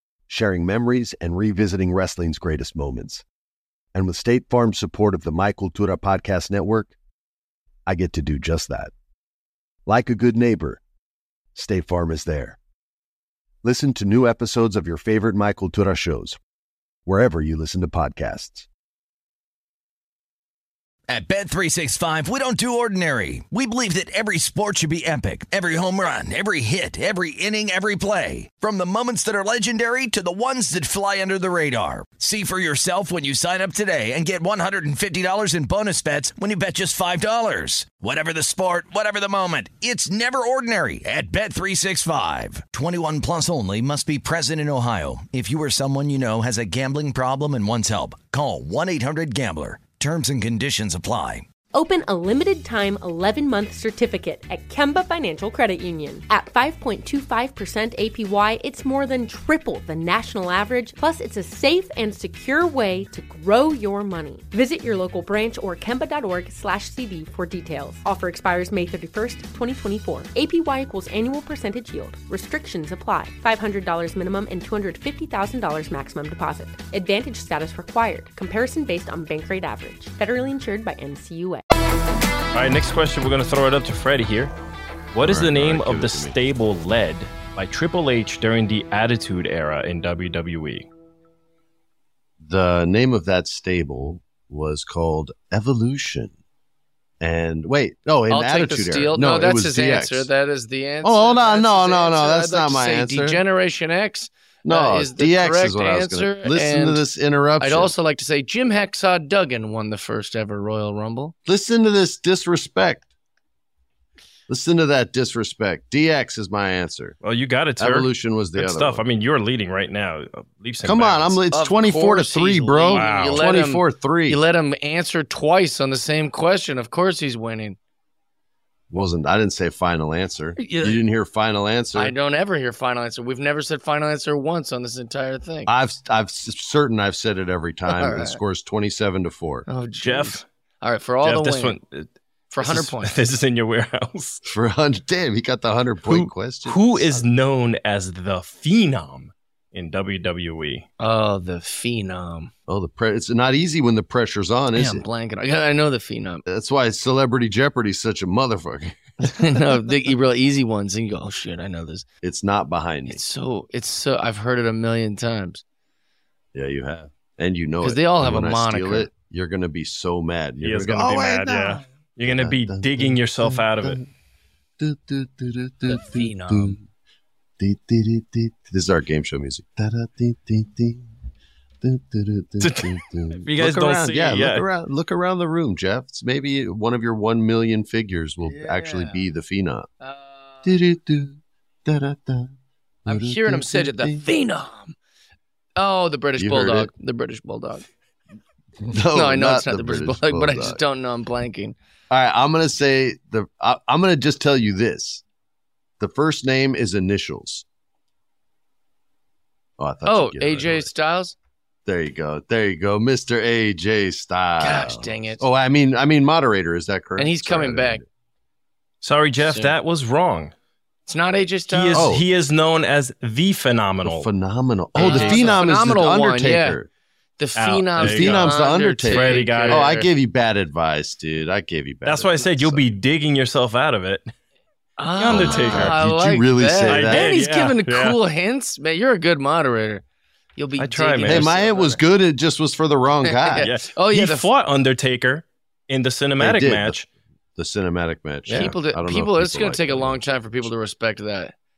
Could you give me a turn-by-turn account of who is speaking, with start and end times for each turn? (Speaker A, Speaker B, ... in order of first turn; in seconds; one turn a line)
Speaker A: 0.3-3.2
Speaker A: 3.9-7.0
Speaker A: 7.9-8.9
Speaker A: 9.9-10.8
Speaker A: 11.6-12.6
Speaker A: 13.6-16.4
Speaker A: 17.1-18.7
Speaker B: 21.1-51.5
Speaker C: 51.7-81.6
Speaker D: 82.5-84.5
Speaker D: 85.1-90.9
Speaker E: 85.2-86.3
Speaker E: 92.4-96.3
Speaker E: 97.2-100.3
Speaker F: 98.3-107.0
Speaker E: 101.0-103.4
Speaker E: 104.7-107.9
Speaker F: 107.6-111.3
Speaker E: 111.5-113.1
Speaker E: 114.5-117.2
Speaker D: 117.2-121.4
Speaker E: 117.8-119.0
Speaker E: 120.8-124.4
Speaker F: 121.5-127.8
Speaker D: 122.9-123.5
Speaker E: 128.9-132.1
Speaker F: 130.6-131.0
Speaker F: 131.9-135.7
Speaker E: 135.7-139.7
Speaker F: 137.9-138.4
Speaker F: 139.7-141.8
Speaker D: 140.0-140.4
Speaker D: 141.2-144.4
Speaker F: 142.5-143.2
Speaker E: 144.5-147.2
Speaker D: 146.1-150.9
Speaker F: 151.0-152.5
Speaker E: 152.7-155.1
Speaker F: 154.7-156.4
Speaker E: 156.5-159.6
Speaker F: 159.2-162.1
Speaker E: 162.2-163.2
Speaker F: 163.1-165.6
Speaker E: 166.5-174.0
Speaker F: 167.8-169.1
Speaker D: 170.6-174.0
Speaker E: 174.8-176.8
Speaker F: 175.9-176.8
Speaker E: 177.6-181.1
Speaker E: 181.8-189.9
Speaker D: 182.6-184.7
Speaker F: 188.4-189.2
Speaker F: 190.0-190.7
Speaker E: 190.7-192.5
Speaker E: 193.1-194.3
Speaker F: 193.1-195.0
Speaker F: 195.8-197.9
Speaker E: 196.4-196.9
Speaker E: 198.8-200.8
Speaker F: 199.1-201.8
Speaker E: 202.1-205.2
Speaker E: 206.0-207.7
Speaker E: 209.8-210.9
Speaker F: 210.1-211.4
Speaker E: 211.9-218.1
Speaker F: 214.6-215.4
Speaker F: 217.2-218.0
Speaker D: 219.0-220.5
Speaker F: 219.4-219.8
Speaker F: 221.1-222.2
Speaker D: 221.7-224.3
Speaker E: 221.9-222.2
Speaker E: 224.0-226.9
Speaker F: 224.9-226.8
Speaker D: 225.0-225.6
Speaker F: 227.4-230.1
Speaker D: 227.6-229.9
Speaker E: 228.0-232.8
Speaker D: 232.1-234.3
Speaker F: 235.0-240.0
Speaker D: 235.2-236.0
Speaker E: 235.3-237.3
Speaker D: 236.9-238.2
Speaker F: 240.6-242.0
Speaker D: 240.8-241.5
Speaker E: 241.3-243.7
Speaker F: 243.2-244.5
Speaker D: 243.6-247.1
Speaker E: 246.4-247.0
Speaker E: 247.6-250.7
Speaker D: 248.5-248.7
Speaker F: 248.5-251.5